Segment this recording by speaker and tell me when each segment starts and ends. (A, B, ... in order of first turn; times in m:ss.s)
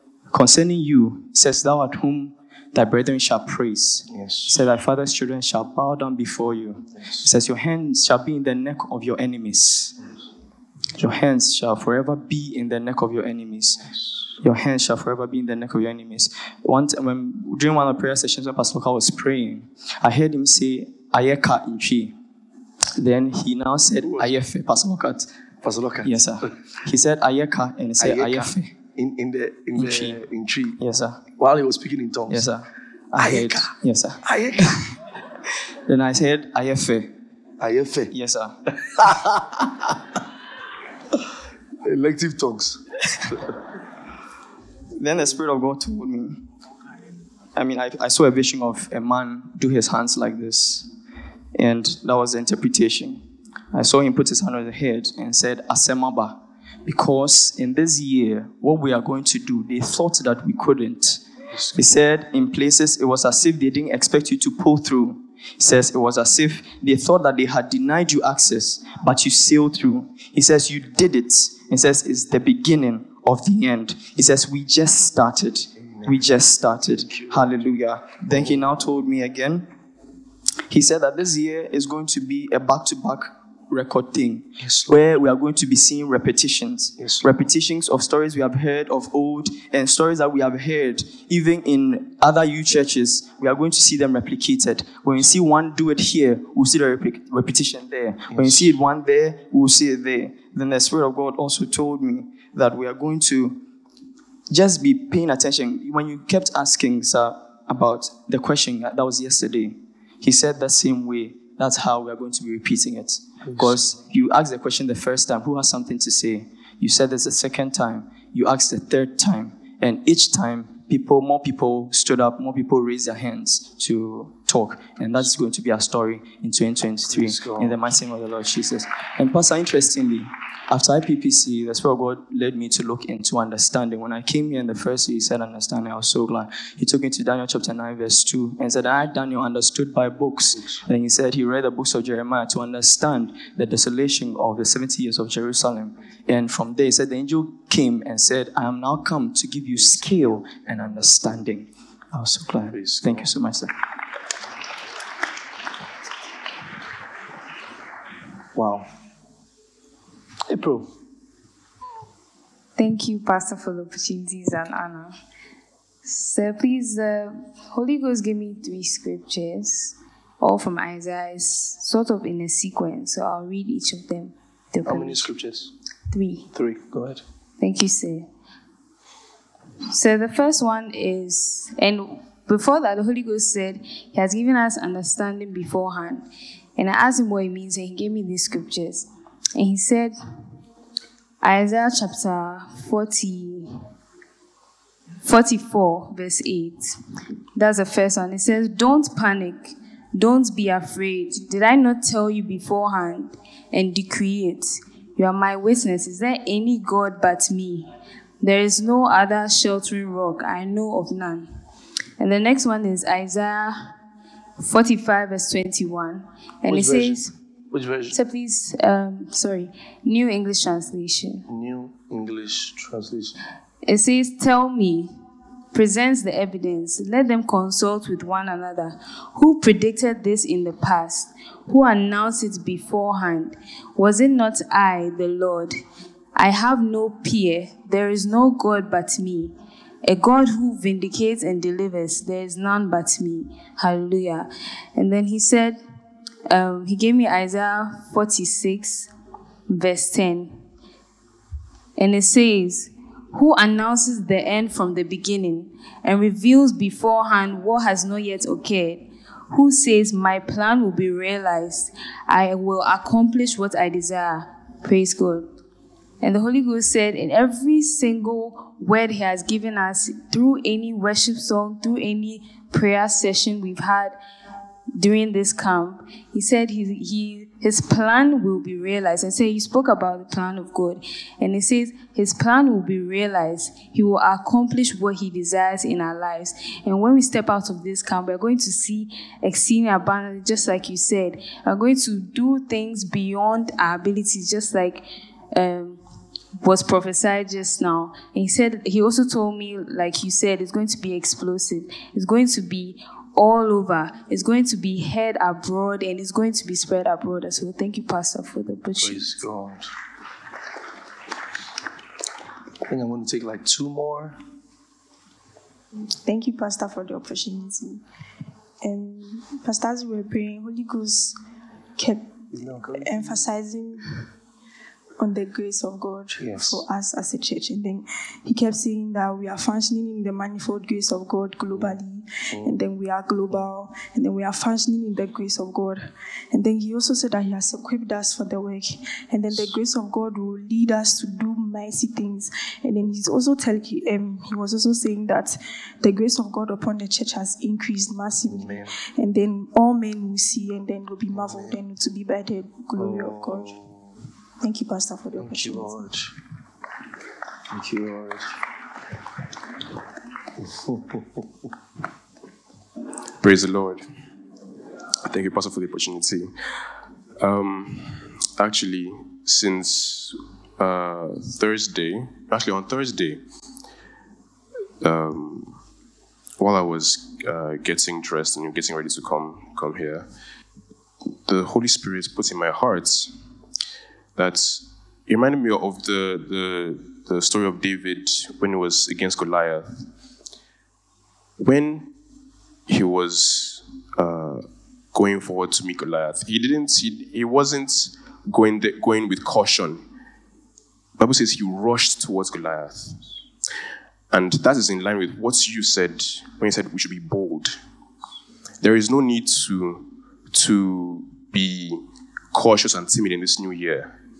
0:00.3-0:10.0 A
0:04.1-0:04.6 B
0:11.0-0:13.8 A
0:14.4-0:22.2 A
0:23.0-0:25.3 A
0:24.0-0:24.3 B
0:25.6-0:26.5 B
0:26.0-0:28.7 A
0:28.0-0:30.8 B
0:29.7-0:30.2 A
0:30.8-0:31.2 A
0:31.4-0:32.5 B
0:32.3-0:34.8 A
0:33.2-0:34.8 B
0:35.9-0:37.1 A
0:37.6-0:38.1 B
0:38.1-0:38.5 A
0:39.0-0:39.7 B
0:41.8-0:42.8 B
0:45.0-0:46.4 A
0:47.5-0:50.9 A
0:51.5-0:53.2 A
0:53.7-1:19.7 A
1:01.5-1:01.8 B
1:15.8-1:16.2 B
1:17.0-1:17.4 B
1:18.3-1:18.6 B
1:20.7-1:43.6 A
1:24.6-1:25.0 B
1:27.0-1:27.3 B
1:38.3-1:38.8 B
1:44.5-2:33.7 A
1:53.5-1:53.8 B
2:07.0-2:07.8 B
2:20.5-2:20.8 B
2:29.8-2:31.2 B
2:32.7-2:33.3 B
2:38.5-2:38.9 B
2:40.5-2:40.9 B
2:42.8-2:45.2 C
2:46.0-2:55.2 C
2:54.8-2:55.7 B
2:56.1-2:56.5 C
2:56.5-2:57.2 B
2:57.6-2:58.3 C
2:59.9-3:10.2 C
3:11.4-3:13.8 C
3:15.2-3:17.0 C
3:17.5-3:31.5 C
3:32.2-3:33.9 C
3:34.6-3:37.3 C
3:36.7-3:38.1 B
3:38.1-3:41.4 C
3:41.5-3:43.4 B
3:43.8-3:45.1 C
3:45.7-3:55.8 C
3:56.3-4:05.8 C
4:06.5-4:09.1 C
4:09.7-4:10.6 C
4:12.0-4:25.5 C
4:26.2-4:34.2 C
4:34.9-4:56.0 C
4:56.6-5:09.4 C
5:09.0-5:09.9 B
5:12.8-5:14.4 B
5:16.2-5:18.0 D
5:18.8-5:21.4 D
5:22.0-5:22.3 D
5:22.5-5:23.4 B
5:22.9-5:24.2 D
5:25.2-5:53.8 D
5:26.4-5:26.8 B
5:32.5-5:32.8 B
5:48.4-5:48.9 B
5:51.3-5:51.8 B
5:53.0-5:54.1 B
5:54.6-5:56.1 D
5:55.4-5:56.3 B
5:57.7-5:58.5 B
6:00.9-6:01.2 B
6:03.4-6:04.1 E
6:05.2-6:06.5 E
6:07.4-6:13.4 E
6:15.0-6:15.8 E
6:16.6-6:20.3 E
6:21.3-6:23.4 E
6:24.4-6:30.0 E
6:31.6-6:32.1 E
6:32.9-6:40.0 E
6:41.2-6:43.2 E
6:44.3-6:47.8 E
6:48.8-6:54.1 E